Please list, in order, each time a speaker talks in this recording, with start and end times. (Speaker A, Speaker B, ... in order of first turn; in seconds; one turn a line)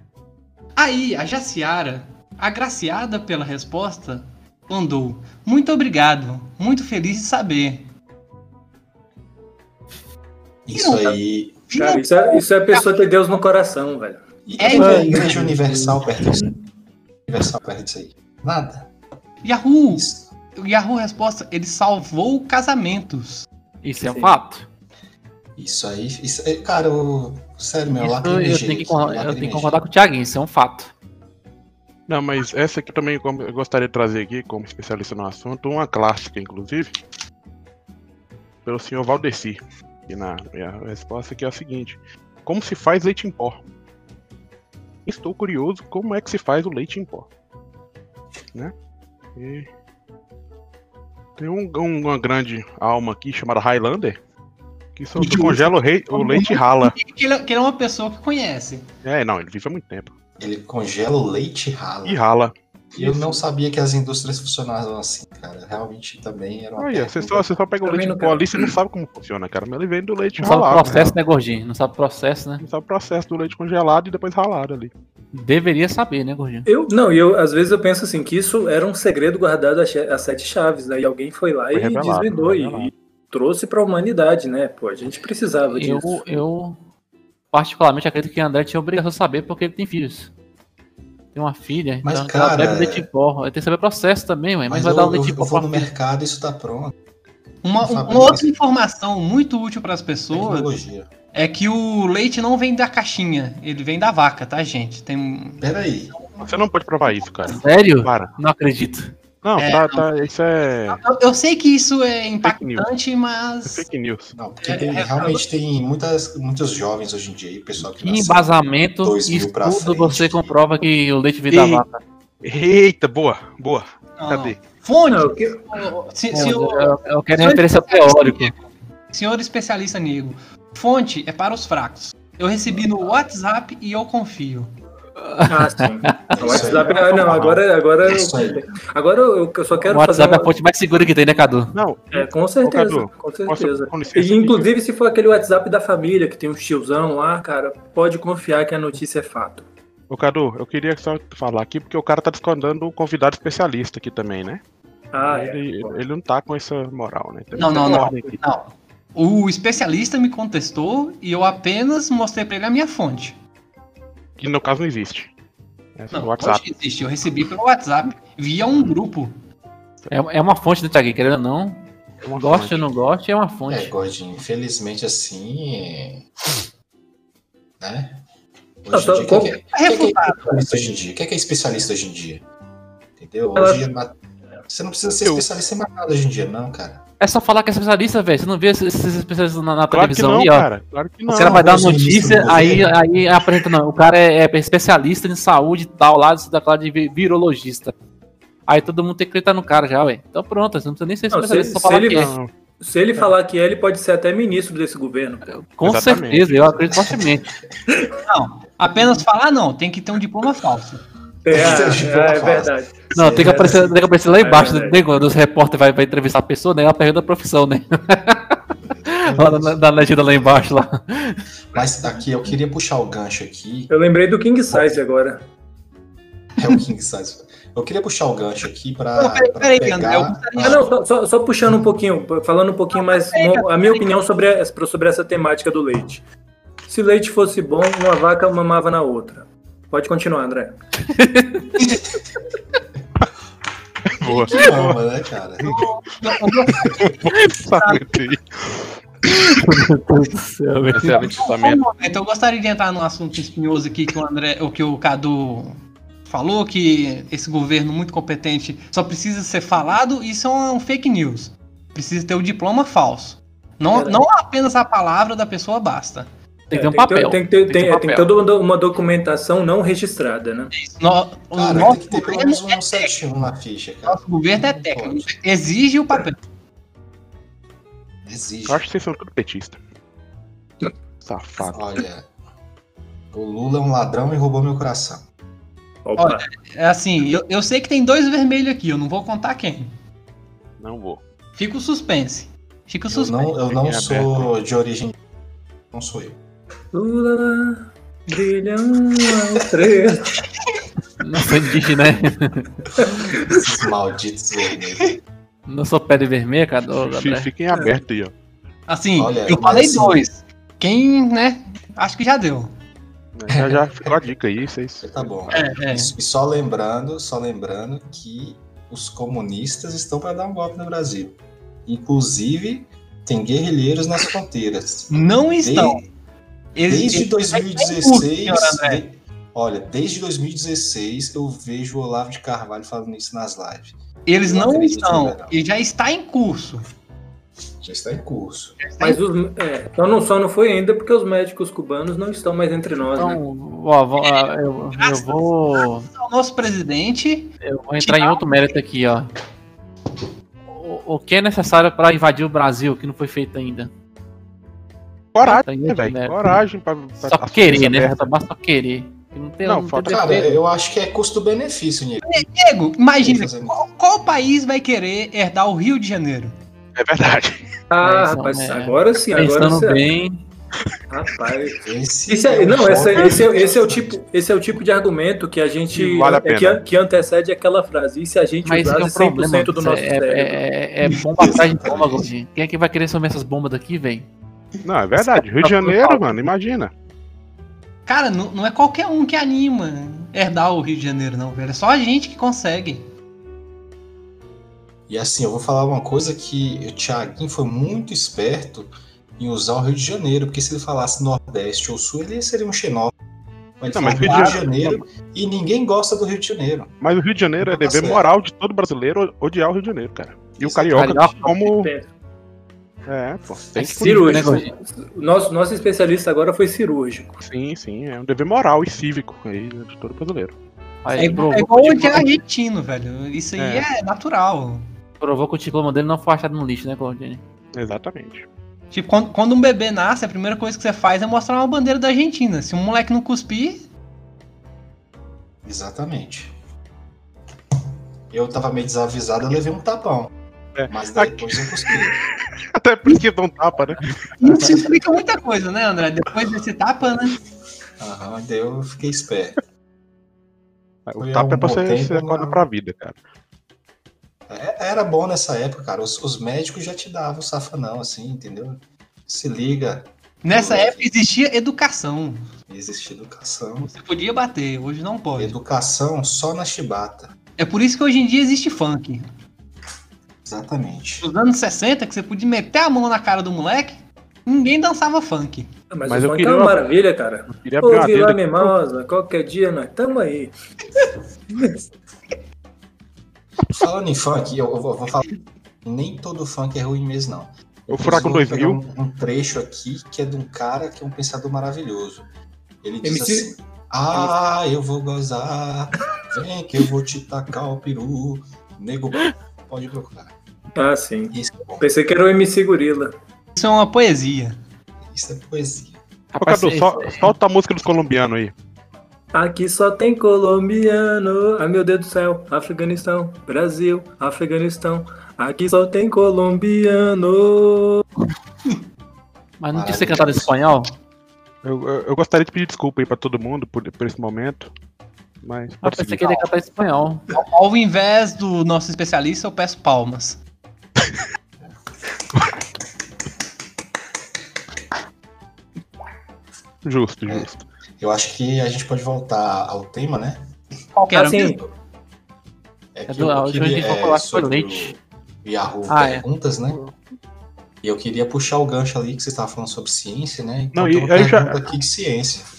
Speaker A: 0.8-7.9
Speaker B: 10.7-11.6
Speaker A: 10.8-11.2
Speaker A: 11.7-13.0
Speaker C: 11.8-14.2
Speaker B: 14.5-16.5
Speaker A: 14.6-15.3
Speaker D: 14.7-16.1
Speaker B: 17.3-18.9
Speaker A: 19.4-23.5
Speaker B: 19.9-20.3
Speaker D: 23.8-24.7
Speaker C: 24.1-24.3
Speaker B: 25.6-29.8
Speaker D: 27.9-30.9
Speaker E: 32.1-37.0
Speaker E: 38.6-43.6
Speaker E: 45.0-47.3
Speaker E: 49.4-49.7
Speaker E: 51.4-54.2
Speaker E: 55.0-57.0
Speaker A: 55.2-58.9
Speaker E: 59.0-60.1
Speaker B: 60.4-62.2
Speaker E: 62.0-63.3
Speaker B: 63.0-67.5
Speaker E: 66.8-71.2
Speaker C: 67.8-68.7
Speaker D: 70.4-72.6
Speaker E: 72.6-74.9
Speaker D: 75.3-76.7
Speaker C: 76.7-86.2
Speaker E: 81.7-82.9
Speaker D: 85.8-86.8
Speaker D: 87.5-90.3
Speaker D: 91.3-95.9
Speaker B: 92.0-93.1
Speaker B: 94.7-96.9
Speaker A: 97.6-100.7
Speaker B: 97.8-98.5
Speaker B: 100.3-101.1
Speaker A: 101.3-107.5
Speaker B: 105.6-106.2
Speaker E: 106.4-108.3
Speaker D: 107.5-109.2
Speaker E: 109.4-111.0
Speaker A: 109.6-110.3
Speaker A: 110.9-113.9
Speaker E: 112.4-112.9
Speaker E: 113.7-114.3
Speaker B: 114.4-120.6
Speaker A: 114.6-115.5
Speaker D: 117.9-122.0
Speaker E: 121.5-121.8
Speaker E: 122.4-124.6
Speaker A: 124.2-134.7
Speaker C: 125.1-125.9
Speaker D: 126.3-128.5
Speaker D: 135.2-136.8
Speaker C: 135.5-140.5
Speaker B: 136.4-138.6
Speaker D: 139.9-141.7
Speaker E: 141.7-144.7
Speaker C: 142.1-149.7
Speaker E: 150.1-154.6
Speaker C: 155.1-156.0
Speaker E: 155.2-158.4
Speaker A: 157.6-163.4
Speaker C: 157.8-158.1
Speaker E: 164.4-165.3
Speaker E: 166.0-166.7
Speaker A: 166.1-169.3
Speaker D: 170.1-173.9
Speaker E: 172.2-172.9
Speaker B: 173.7-176.2
Speaker B: 177.8-178.2
Speaker B: 178.8-182.4
Speaker C: 178.9-179.6
Speaker A: 179.7-180.7
Speaker B: 183.2-184.2
Speaker C: 183.6-183.9
Speaker B: 184.7-187.0
Speaker E: 185.2-185.5
Speaker D: 187.2-190.7
Speaker E: 189.9-191.6
Speaker D: 191.3-197.9
Speaker B: 191.3-192.9
Speaker D: 198.7-202.3
Speaker C: 201.3-205.5
Speaker E: 202.1-202.5
Speaker D: 205.5-207.5
Speaker E: 205.8-206.8
Speaker B: 206.6-207.8
Speaker C: 207.9-208.2
Speaker A: 208.2-211.0
Speaker C: 211.4-215.0
Speaker B: 211.5-214.0
Speaker D: 213.1-221.5
Speaker B: 218.8-220.5
Speaker B: 221.7-223.9
Speaker C: 223.9-225.4
Speaker B: 226.6-230.8
Speaker A: 229.2-230.8
Speaker C: 230.6-236.2
Speaker A: 232.9-234.1
Speaker C: 236.9-240.8
Speaker D: 241.1-242.0
Speaker E: 244.1-245.0
Speaker B: 244.4-245.9
Speaker A: 245.6-247.2
Speaker E: 246.8-249.0
Speaker A: 247.8-248.0
Speaker D: 249.2-251.3
Speaker E: 250.9-251.8
Speaker A: 251.2-266.3
Speaker C: 263.9-264.2
Speaker D: 266.7-268.3
Speaker C: 266.7-270.7
Speaker A: 270.8-273.1
Speaker B: 271.5-275.3
Speaker A: 274.1-276.4
Speaker B: 278.3-278.8
Speaker E: 278.7-279.8
Speaker E: 281.2-282.0
Speaker B: 281.7-282.3
Speaker B: 283.3-285.2
Speaker C: 286.1-286.5
Speaker A: 286.2-289.9
Speaker E: 290.8-291.2
Speaker A: 291.6-293.6
Speaker B: 293.1-295.2
Speaker E: 293.7-294.5
Speaker B: 295.9-296.4
Speaker C: 296.9-300.4
Speaker D: 301.2-302.9
Speaker B: 303.5-305.2
Speaker D: 305.7-307.5
Speaker E: 306.9-308.3
Speaker A: 308.9-312.7
Speaker B: 309.2-310.2
Speaker E: 313.4-315.7
Speaker B: 313.5-314.2
Speaker B: 315.0-326.0
Speaker A: 315.5-316.1
Speaker A: 325.1-326.0
Speaker A: 326.8-329.0
Speaker B: 326.9-335.6
Speaker A: 334.3-336.8
Speaker B: 337.8-338.8
Speaker A: 338.8-339.2
Speaker C: 339.0-343.4
Speaker D: 343.2-346.1
Speaker A: 344.2-348.5
Speaker D: 347.6-349.3
Speaker D: 350.7-353.9
Speaker E: 355.3-358.3
Speaker D: 355.4-356.6
Speaker D: 357.2-360.6
Speaker E: 359.6-360.3
Speaker B: 360.1-362.5
Speaker A: 362.3-366.5
Speaker B: 363.2-363.9
Speaker E: 366.9-367.7
Speaker C: 367.9-370.1
Speaker D: 368.0-370.5
Speaker C: 371.1-380.6
Speaker B: 371.8-374.2
Speaker E: 375.9-376.8
Speaker D: 378.6-384.3
Speaker B: 381.4-382.3
Speaker E: 384.8-386.9
Speaker D: 385.2-386.4
Speaker A: 388.1-393.1
Speaker B: 395.1-403.1
Speaker B: 403.8-406.9
Speaker E: 403.9-405.0
Speaker E: 407.0-411.9
Speaker B: 407.6-408.3
Speaker B: 410.6-411.2
Speaker D: 410.9-411.6
Speaker C: 411.6-412.1
Speaker E: 413.1-414.6
Speaker D: 413.8-414.7
Speaker C: 414.0-417.4
Speaker E: 417.4-420.6
Speaker D: 421.0-422.3
Speaker A: 421.2-424.8
Speaker E: 423.6-423.9
Speaker D: 425.2-427.4
Speaker E: 427.8-428.5
Speaker A: 428.9-433.9
Speaker B: 435.6-436.5
Speaker B: 438.3-440.3
Speaker E: 440.8-444.9
Speaker B: 440.9-442.2
Speaker A: 444.4-447.4
Speaker B: 448.0-449.6
Speaker E: 451.1-453.2
Speaker B: 451.2-452.6
Speaker B: 454.5-461.1
Speaker A: 460.4-462.4
Speaker B: 462.7-463.9
Speaker A: 463.9-465.6
Speaker B: 465.4-467.3
Speaker A: 467.6-469.2
Speaker B: 470.4-471.3
Speaker A: 471.2-475.7
Speaker C: 475.9-480.5
Speaker E: 476.1-476.8
Speaker E: 477.5-478.7
Speaker B: 483.7-485.3
Speaker B: 485.8-492.3
Speaker E: 487.9-488.8
Speaker B: 492.8-500.3
Speaker C: 493.0-493.5
Speaker C: 500.8-503.1
Speaker B: 501.3-501.9
Speaker A: 503.6-504.6
Speaker B: 505.1-506.0
Speaker E: 506.3-508.5
Speaker D: 506.4-507.3
Speaker C: 509.3-518.1
Speaker D: 519.6-520.9
Speaker B: 519.7-520.6
Speaker E: 521.6-524.7
Speaker E: 525.4-526.4
Speaker D: 525.8-527.3
Speaker A: 527.3-530.4
Speaker E: 536.8-537.6
Speaker B: 537.3-540.4
Speaker A: 541.0-541.6
Speaker C: 541.1-541.6
Speaker B: 543.0-546.8
Speaker D: 543.1-544.9
Speaker D: 545.9-546.2
Speaker B: 547.8-552.5
Speaker E: 550.7-551.7